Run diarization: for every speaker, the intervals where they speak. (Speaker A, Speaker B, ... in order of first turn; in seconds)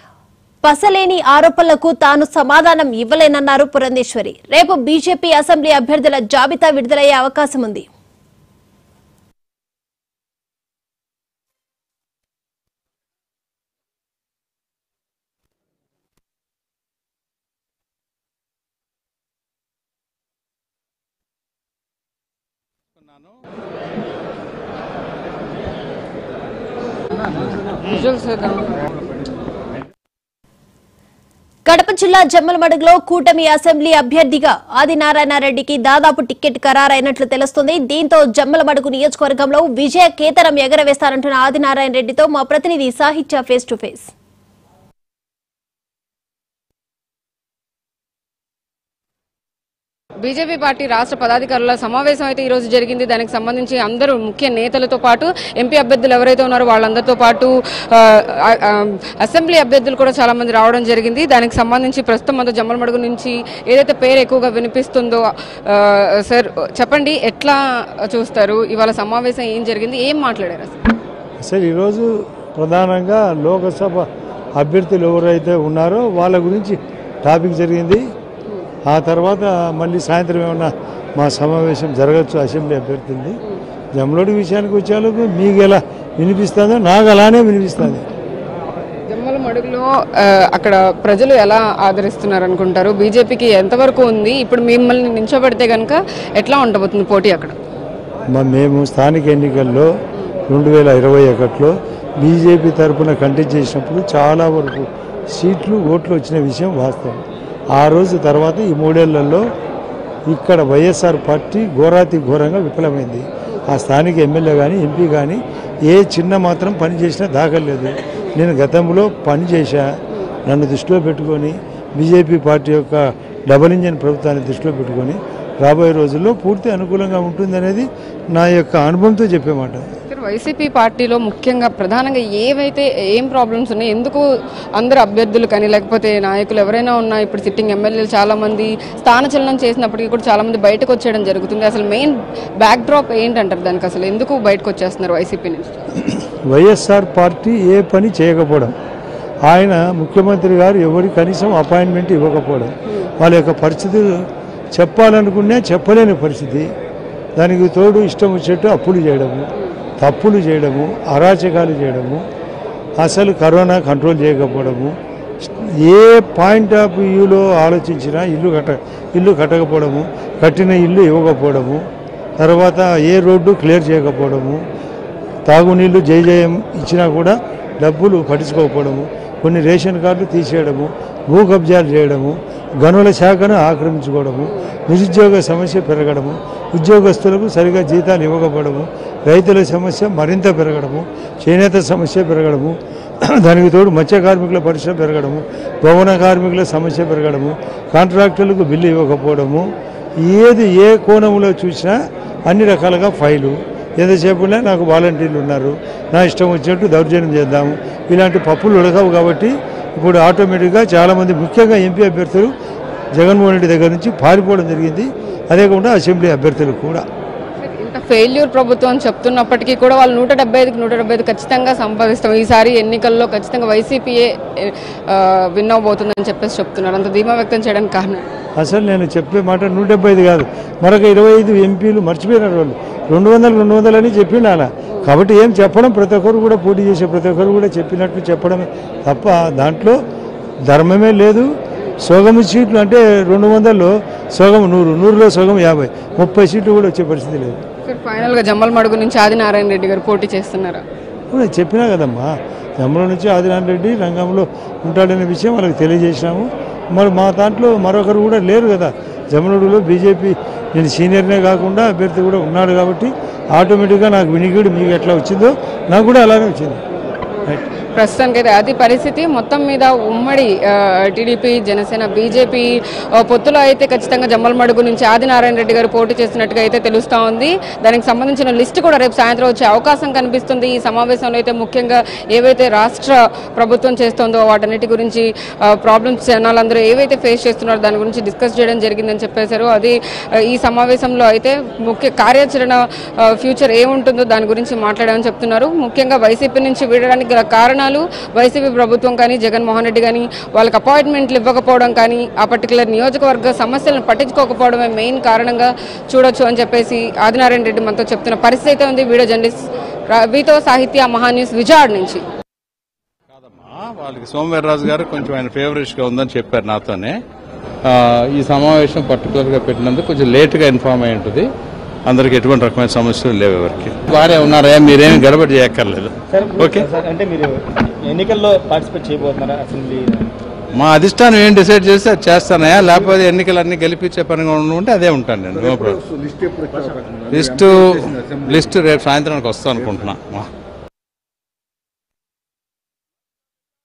Speaker A: 0.6-7.8, 31.6-44.1
Speaker B: 27.9-28.8, 50.2-70.8, 89.1-97.5, 130.1-134.2, 134.8-145.8, 217.6-228.2, 247.8-250.8, 267.4-289.9, 290.5-312.2
Speaker C: 71.4-74.0, 74.6-78.0, 78.9-83.4, 84.0-88.0, 98.3-99.9, 100.5-107.2, 107.7-109.4, 110.3-129.8, 146.5-148.7, 149.4-156.7, 157.4-159.5, 160.0-162.2, 163.0-171.8, 172.4-174.6, 175.5-199.7, 200.2-212.5, 213.1-217.0, 228.6-240.0, 240.7-247.6, 251.3-252.3, 252.8-266.8
Speaker D: 313.3-317.2, 317.8-321.5, 322.1-326.9, 330.8-336.0, 337.3-340.5
Speaker E: 326.3-327.5, 328.1-330.3